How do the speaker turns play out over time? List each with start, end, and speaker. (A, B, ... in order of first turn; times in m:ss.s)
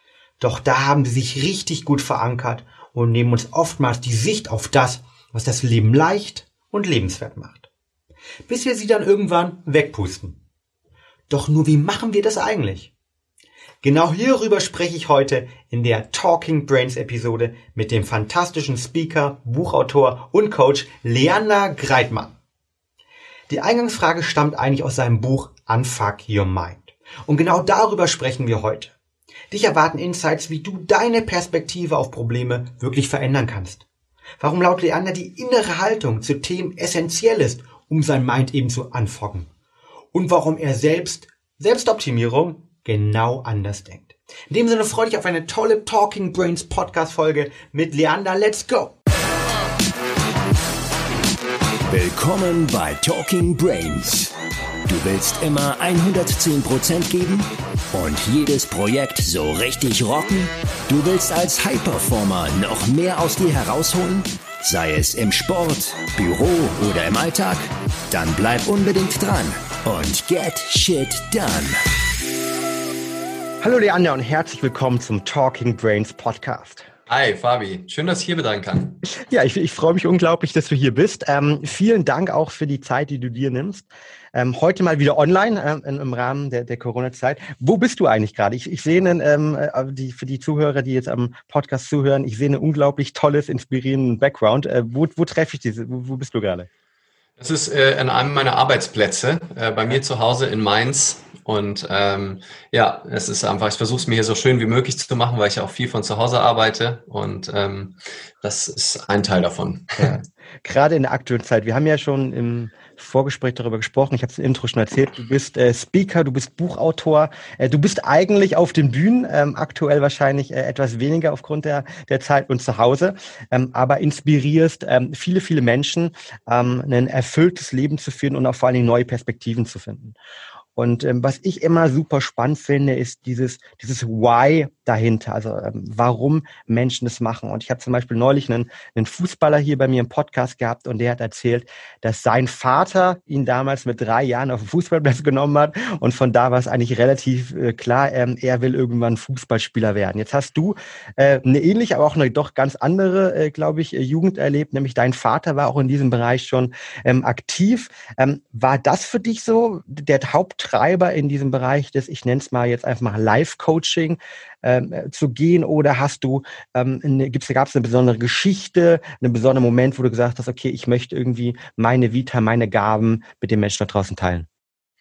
0:00.4-0:07.7 A
0:08.5-0:10.4 A
0:11.3-0:12.9 A
0:13.8-0:22.4 A
0:23.5-0:28.9 A
0:29.5-0:33.8 A
0:34.4-0:39.5 A
0:40.1-0:48.9 A
0:51.9-0:54.3 B
0:54.9-1:11.8 B
1:13.6-1:16.9 A
1:17.1-1:19.0 C
1:19.3-1:36.7 A
1:37.4-1:50.2 C
1:50.0-2:10.2 A
2:10.8-2:54.5 A